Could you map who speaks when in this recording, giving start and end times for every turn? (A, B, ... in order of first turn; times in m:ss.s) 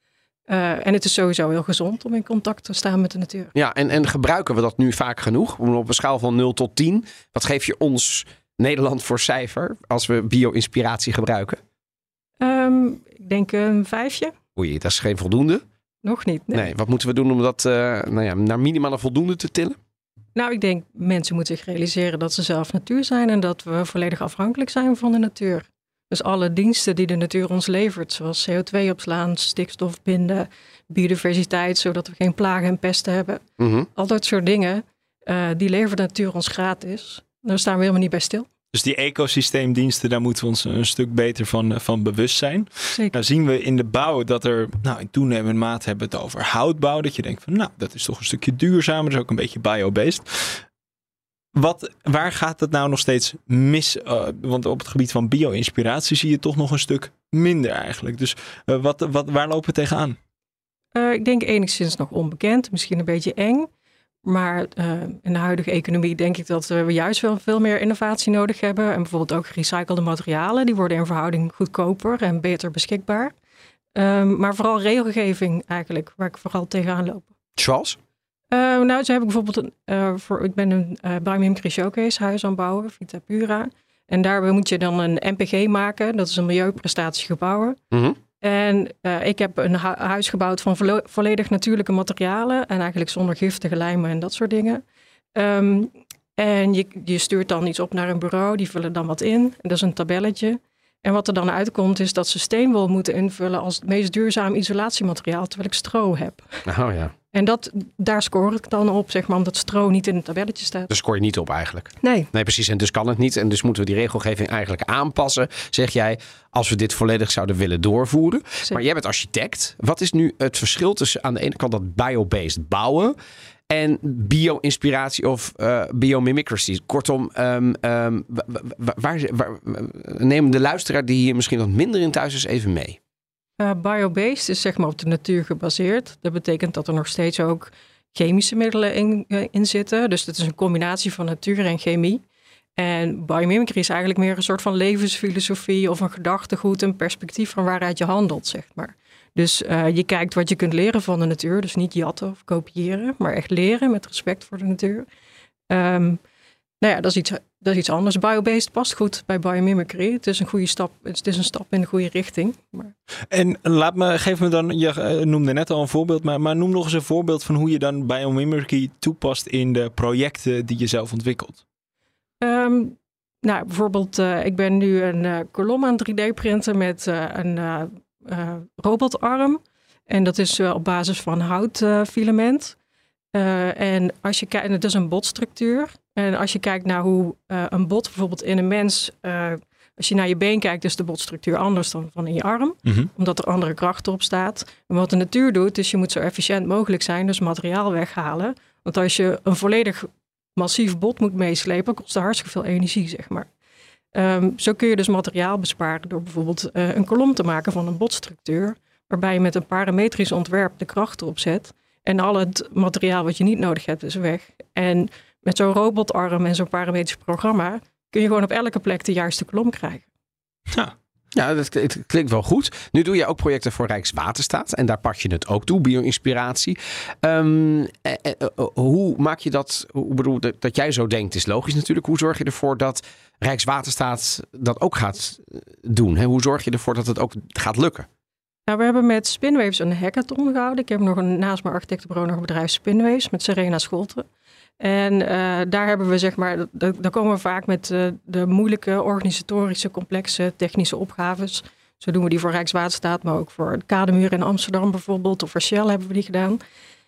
0:00.5-0:03.5 A
0:03.5-0:11.6 B
0:12.4-0:14.3 A
0:14.6-0:15.6 B
0:16.0-0:16.7 A
0:16.5-0:19.8 B
0:20.4-0:33.4 A
0:33.6-0:33.9 B
0:34.0-0:38.5 A
0:38.7-0:50.6 C
0:51.6-1:00.2 C
1:00.9-1:03.7 A
1:04.2-1:13.3 A
1:14.0-1:17.3 A
1:17.6-1:18.0 B
1:18.5-1:27.8 A
1:27.9-1:28.2 B
1:28.4-1:34.8 A
1:35.4-1:46.4 A
1:46.6-1:47.1 B
1:47.3-1:50.9 A
1:50.9-2:03.1 B
1:52.0-1:52.3 A
2:03.7-2:13.0 B
2:13.6-2:22.2 A
2:22.8-2:35.0 A
2:35.7-2:36.2 A
2:36.8-2:42.9 A
2:43.3-2:51.6 C
2:52.4-3:02.8 A
3:03.3-3:23.5 A
3:24.1-3:40.0 A
3:41.3-3:58.1 B
3:58.7-4:04.2 A
4:04.8-4:16.6 A